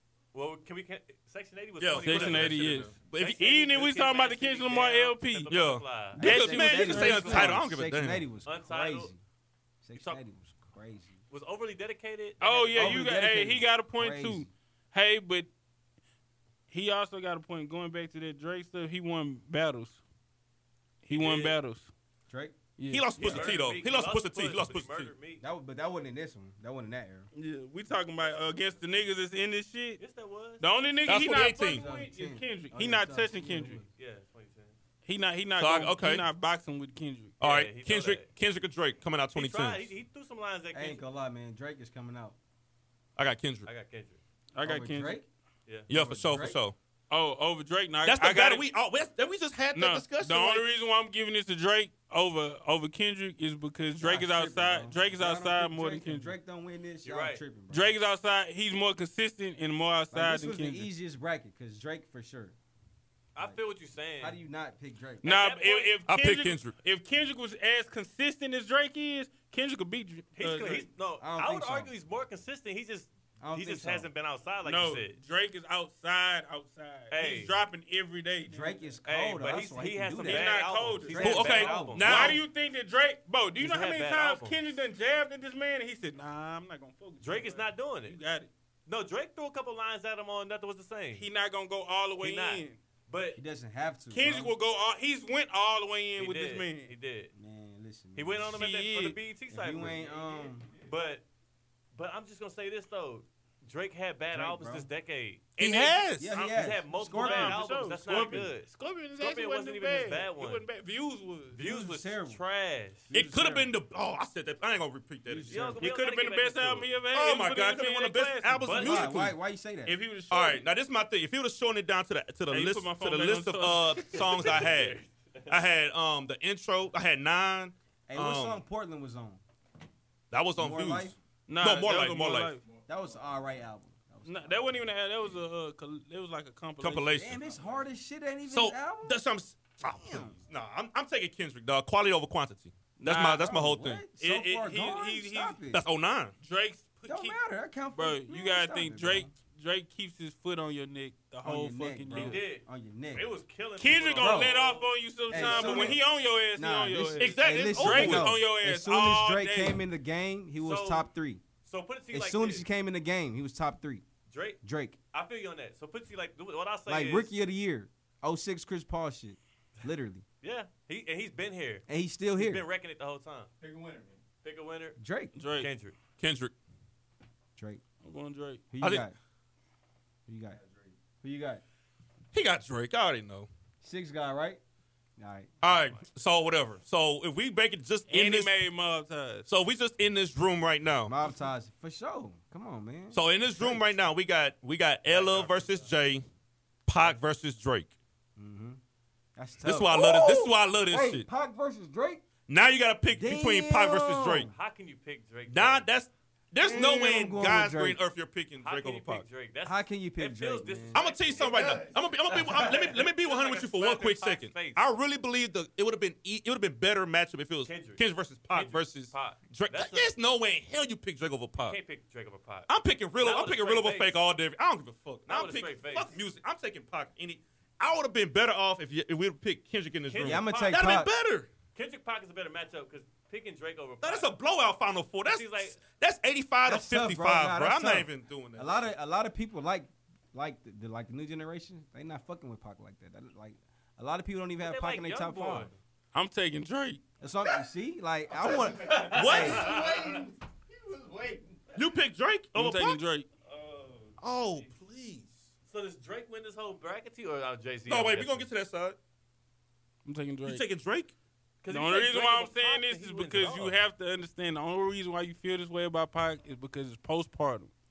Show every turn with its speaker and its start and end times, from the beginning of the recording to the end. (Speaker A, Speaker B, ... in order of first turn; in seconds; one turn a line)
Speaker A: 0.3-7.5
Speaker B: 1.8-3.4
Speaker C: 2.0-5.5
Speaker B: 5.5-8.3
Speaker D: 6.2-9.2
Speaker C: 6.2-7.5
Speaker A: 8.5-9.1
Speaker D: 9.8-11.2
Speaker A: 10.0-10.2
Speaker A: 11.3-13.0
Speaker C: 12.4-15.5
Speaker D: 12.8-14.5
Speaker C: 16.7-20.0
Speaker C: 21.0-21.9
Speaker A: 21.1-21.6
Speaker D: 22.3-22.6
Speaker C: 22.8-23.5
Speaker B: 22.9-25.1
Speaker A: 23.2-25.4
Speaker D: 25.4-27.3
Speaker C: 27.3-30.0
Speaker A: 30.0-30.6
Speaker C: 30.6-33.8
Speaker B: 31.1-31.9
Speaker D: 31.4-33.9
Speaker A: 34.0-34.8
Speaker C: 35.0-37.4
Speaker B: 35.6-36.3
Speaker A: 37.4-38.3
Speaker B: 37.4-39.9
Speaker A: 39.4-41.0
Speaker D: 40.7-42.4
Speaker B: 43.2-43.7
Speaker A: 43.7-44.2
Speaker C: 44.5-45.2
Speaker D: 44.6-45.3
Speaker D: 45.9-46.6
Speaker B: 45.9-46.8
Speaker C: 47.1-48.6
Speaker B: 48.0-50.6
Speaker C: 49.7-56.3
Speaker D: 54.0-58.0
Speaker A: 57.0-57.4
Speaker C: 57.7-60.9
Speaker D: 60.1-62.5
Speaker A: 63.4-64.4
Speaker D: 64.2-65.3
Speaker C: 65.2-70.9
Speaker A: 65.2-66.0
Speaker B: 66.1-66.7
Speaker A: 70.4-75.2
Speaker D: 71.2-71.9
Speaker D: 73.4-74.1
Speaker C: 74.7-78.9
Speaker A: 77.1-77.5
Speaker D: 78.5-82.1
Speaker A: 79.0-82.4
Speaker C: 80.2-88.5
Speaker B: 81.2-82.4
Speaker A: 83.6-84.6
Speaker A: 87.2-88.2
Speaker A: 88.9-91.3
Speaker C: 91.2-92.8
Speaker A: 92.2-93.4
Speaker D: 93.3-94.5
Speaker C: 94.1-96.9
Speaker A: 96.2-97.3
Speaker D: 97.3-98.6
Speaker A: 98.2-100.2
Speaker C: 98.5-99.2
Speaker D: 99.5-100.7
Speaker E: 100.0-100.9
Speaker A: 100.8-101.2
Speaker A: 101.9-110.7
Speaker D: 104.3-104.9
Speaker B: 105.6-106.3
Speaker D: 106.2-107.7
Speaker C: 106.3-111.6
Speaker A: 111.5-113.1
Speaker D: 111.6-112.4
Speaker D: 113.1-113.7
Speaker B: 113.1-115.8
Speaker D: 115.3-115.9
Speaker A: 115.5-116.9
Speaker C: 115.8-119.0
Speaker B: 117.1-119.4
Speaker A: 118.6-119.1
Speaker D: 118.8-120.0
Speaker C: 119.9-120.7
Speaker B: 120.3-128.6
Speaker C: 122.5-124.9
Speaker A: 124.2-125.5
Speaker D: 128.1-129.4
Speaker B: 130.3-132.6
Speaker D: 130.6-131.2
Speaker C: 131.5-132.6
Speaker E: 132.5-133.7
Speaker D: 132.9-134.8
Speaker C: 134.3-137.4
Speaker B: 136.8-137.4
Speaker D: 137.1-139.2
Speaker E: 137.3-137.9
Speaker B: 138.5-144.1
Speaker D: 139.8-140.3
Speaker D: 143.0-145.8
Speaker C: 143.1-143.5
Speaker C: 144.2-145.6
Speaker B: 145.7-146.3
Speaker C: 146.4-147.4
Speaker D: 147.1-149.3
Speaker C: 147.9-152.4
Speaker D: 151.4-153.3
Speaker A: 152.1-156.0
Speaker C: 153.8-159.8
Speaker D: 154.2-154.6
Speaker D: 155.3-156.0
Speaker D: 156.5-161.4
Speaker B: 157.2-158.3
Speaker A: 160.6-161.1
Speaker A: 161.7-162.7
Speaker D: 162.1-164.0
Speaker A: 164.3-164.6
Speaker D: 164.6-165.0
Speaker A: 165.1-167.3
Speaker D: 166.9-170.2
Speaker A: 170.4-173.5
Speaker D: 171.9-172.7
Speaker E: 173.6-174.2
Speaker A: 174.4-175.0
Speaker D: 175.0-175.3
Speaker C: 175.4-175.7
Speaker A: 175.6-176.0
Speaker B: 176.2-176.5
Speaker D: 177.6-177.8
Speaker C: 178.0-178.6
Speaker D: 178.7-179.2
Speaker B: 178.8-179.1
Speaker D: 180.3-180.6
Speaker E: 180.5-181.0
Speaker D: 181.2-181.6
Speaker B: 182.3-183.5
Speaker D: 183.8-184.6
Speaker D: 185.2-185.6
Speaker B: 185.6-188.5
Speaker C: 188.1-189.5
Speaker B: 189.5-191.2
Speaker D: 191.1-193.8
Speaker B: 193.1-196.2
Speaker A: 195.1-195.9
Speaker B: 196.9-197.9
Speaker D: 198.4-198.8
Speaker D: 199.4-202.2
Speaker B: 199.7-201.3
Speaker B: 202.5-204.5
Speaker D: 203.2-204.5
Speaker A: 204.5-205.9
Speaker B: 205.5-209.2
Speaker D: 206.6-208.0
Speaker A: 208.6-214.8
Speaker D: 209.7-211.0
Speaker B: 210.9-221.8
Speaker E: 211.4-213.0
Speaker A: 217.7-220.1
Speaker A: 221.6-222.7
Speaker B: 222.7-231.5
Speaker A: 223.2-224.2
Speaker A: 225.3-226.2
Speaker A: 230.1-231.0
Speaker D: 230.2-231.1
Speaker A: 231.8-234.3
Speaker B: 234.0-238.9
Speaker A: 235.2-235.8
Speaker D: 236.7-245.7
Speaker A: 244.6-245.7
Speaker C: 246.1-247.0
Speaker D: 247.2-249.7
Speaker E: 248.3-251.8
Speaker A: 248.7-250.2
Speaker B: 249.1-249.7
Speaker B: 251.8-253.0
Speaker C: 252.6-253.3
Speaker A: 253.5-254.1
Speaker B: 254.2-255.5
Speaker A: 255.7-258.5
Speaker B: 257.9-259.0
Speaker C: 260.1-260.6
Speaker B: 260.4-261.1
Speaker A: 261.6-263.8
Speaker C: 261.7-267.7